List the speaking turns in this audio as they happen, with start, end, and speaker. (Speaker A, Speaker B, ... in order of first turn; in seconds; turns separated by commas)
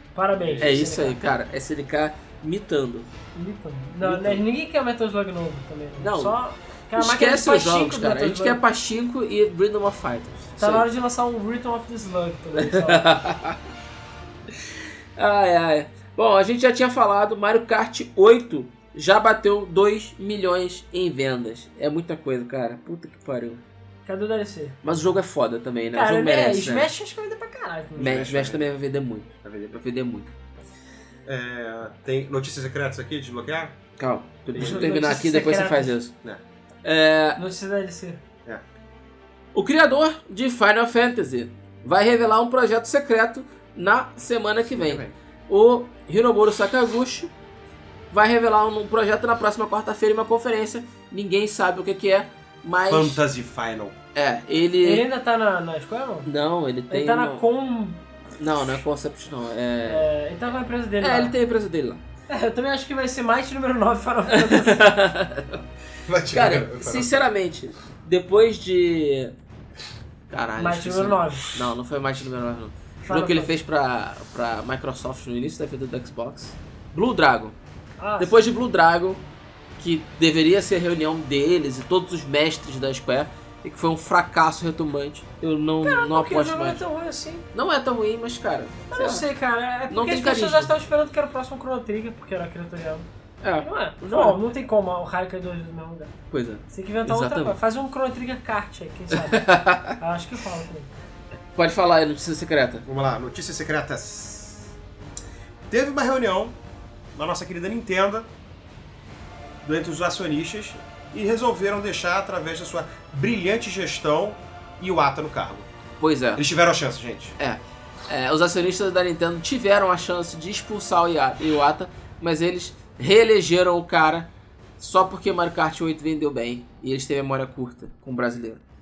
Speaker A: 0.1-1.2, Speaker B: 0.4-0.7, Speaker C: 0.6-3.1, Speaker A: 3.3-8.6, Speaker C: 4.0-4.4, Speaker C: 6.0-6.4, Speaker C: 7.0-10.9, Speaker A: 10.6-13.0, Speaker C: 12.6-13.6, Speaker C: 15.2-23.6, Speaker A: 24.1-24.8, Speaker C: 24.8-26.9, Speaker A: 25.9-28.3, Speaker B: 28.0-28.6, Speaker C: 28.0-30.3, Speaker B: 29.4-29.8, Speaker B: 31.3-33.8, Speaker C: 34.0-36.1, Speaker B: 34.5-34.9, Speaker A: 34.5-36.0, Speaker C: 36.8-37.4, Speaker A: 37.4-38.2, Speaker C: 39.5-47.3, Speaker B: 44.8-45.1, Speaker C: 48.1-53.2, Speaker B: 52.9-54.0, Speaker C: 54.1-55.0, Speaker A: 54.8-56.3, Speaker C: 56.3-57.4, Speaker A: 56.9-58.0, Speaker C: 58.4-60.0, Speaker A: 59.8-61.3, Speaker C: 61.0-62.0, Speaker A: 62.3-64.9, Speaker C: 64.3-65.6, Speaker B: 66.1-67.1, Speaker C: 66.3-69.3, Speaker C: 70.3-77.5, Speaker A: 70.6-71.7, Speaker A: 73.0-73.5, Speaker A: 78.0-78.4, Speaker C: 78.2-79.2, Speaker C: 79.8-86.8, Speaker A: 85.8-87.5, Speaker C: 87.5-89.3, Speaker A: 88.9-93.0, Speaker C: 89.9-90.7, Speaker C: 93.4-94.4, Speaker A: 93.6-96.1, Speaker C: 96.3-97.6, Speaker A: 96.7-100.9, Speaker C: 99.1-100.0, Speaker C: 101.5-102.8, Speaker B: 102.8-104.7, Speaker B: 105.7-106.5, Speaker B: 107.1-108.3, Speaker B: 109.6-115.7, Speaker C: 116.0-116.4, Speaker B: 116.3-117.3, Speaker C: 117.4-128.6